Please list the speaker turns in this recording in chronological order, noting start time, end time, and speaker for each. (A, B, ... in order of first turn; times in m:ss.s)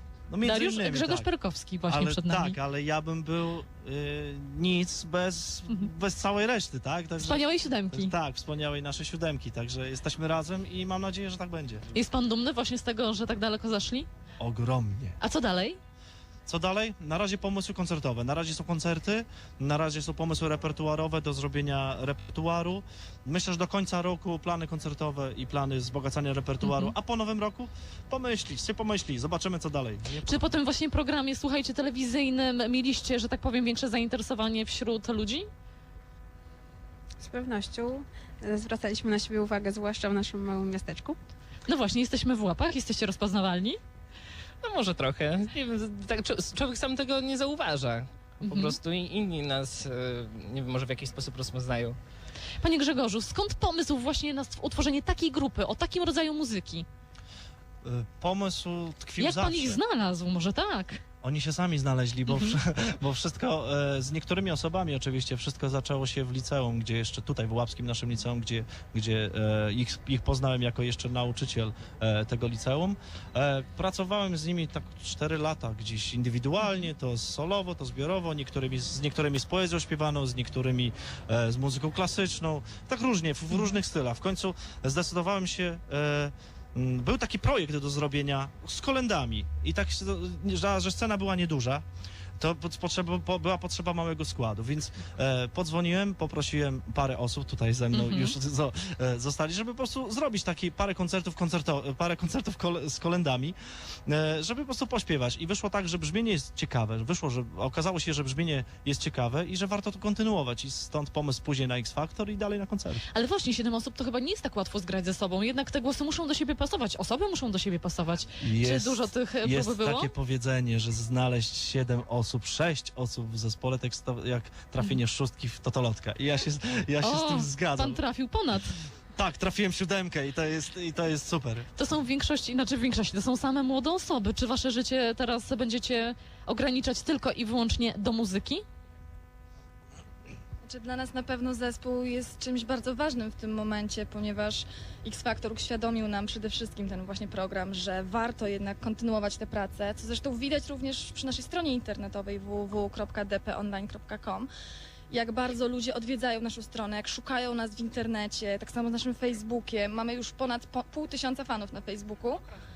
0:00.3-0:01.3 A
0:00.4-0:02.6 B
0:01.9-0:11.8 A
0:07.2-0:08.1 B
0:11.9-0:14.1 B
0:14.4-0:15.2 A
0:15.2-0:15.8 B
0:16.5-0:30.5 A
0:26.6-0:26.9 B
0:30.2-0:35.5 B
0:37.2-0:41.2 C
0:41.7-0:43.8 B
0:44.6-0:52.0 D
0:48.4-0:48.8 B
0:52.6-0:56.9 B
0:57.8-0:59.8 A
0:59.2-1:01.0 B
1:01.2-1:31.8 A
1:02.3-1:02.6 B
1:32.4-1:43.6 A
1:37.9-1:38.4 B
1:44.1-1:53.0 A
1:53.1-2:00.1 B
1:58.4-2:08.0 A
2:07.0-2:08.8 B
2:09.2-2:11.7 A
2:11.8-2:18.6 B
2:20.6-2:34.5 E
2:35.1-2:42.4 E